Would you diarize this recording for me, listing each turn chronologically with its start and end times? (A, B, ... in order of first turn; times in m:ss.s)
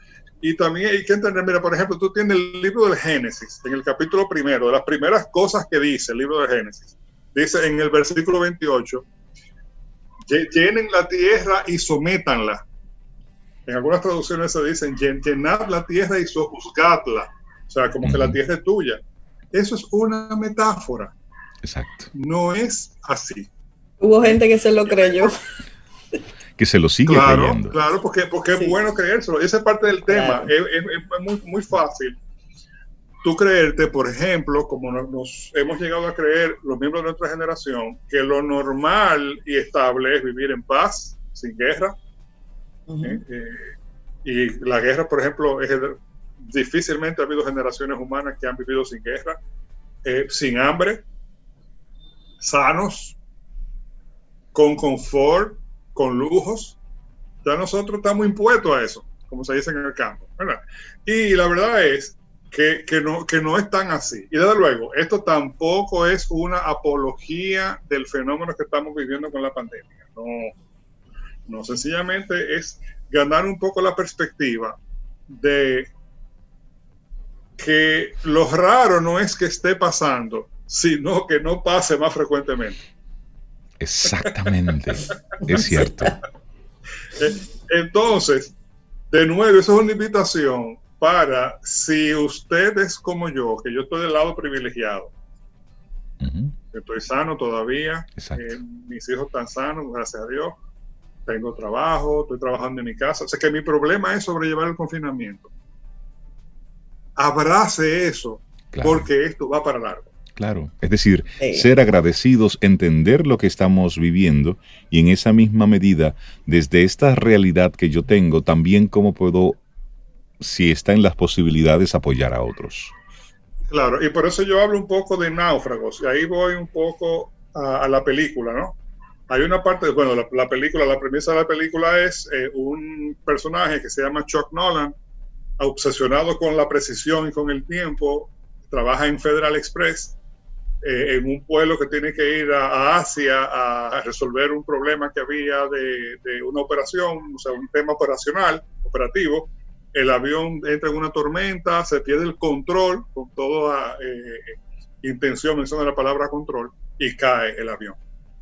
0:00.4-0:09.1 A
0:10.3-0:12.6 A
0:13.7-0:19.0 A
0:18.0-0:18.4 B
0:19.5-0:21.1 A
0:21.6-0:22.1 B
0:22.1-0:23.5 A
0:24.0-0:25.4 C
0:24.2-0:25.3 A
0:26.6-0:27.8 B
0:27.1-0:32.2 A
0:30.1-0:30.5 C
0:33.2-0:42.0 A
0:42.9-0:43.2 C
0:43.0-0:43.7 A
0:44.2-0:49.4 A
0:50.0-0:51.0 A
0:52.4-0:53.2 A
0:54.5-0:56.8 A
0:57.4-1:10.5 A
1:11.5-1:14.8 A
1:15.3-1:15.9 A
1:17.6-1:22.8 A
1:23.8-1:26.2 B
1:27.2-1:28.5 A
1:29.1-1:35.1 A
1:36.2-1:36.5 B
1:36.7-1:40.6 A
1:38.2-1:38.6 B
1:41.3-1:45.5 A
1:47.2-1:50.1 A
1:48.7-1:49.1 B
1:50.4-1:59.6 B
1:51.4-1:51.7 C
2:00.4-2:02.9 B
2:03.7-2:08.8 A
2:09.3-2:14.9 A
2:15.6-2:20.2 A
2:20.8-2:38.0 A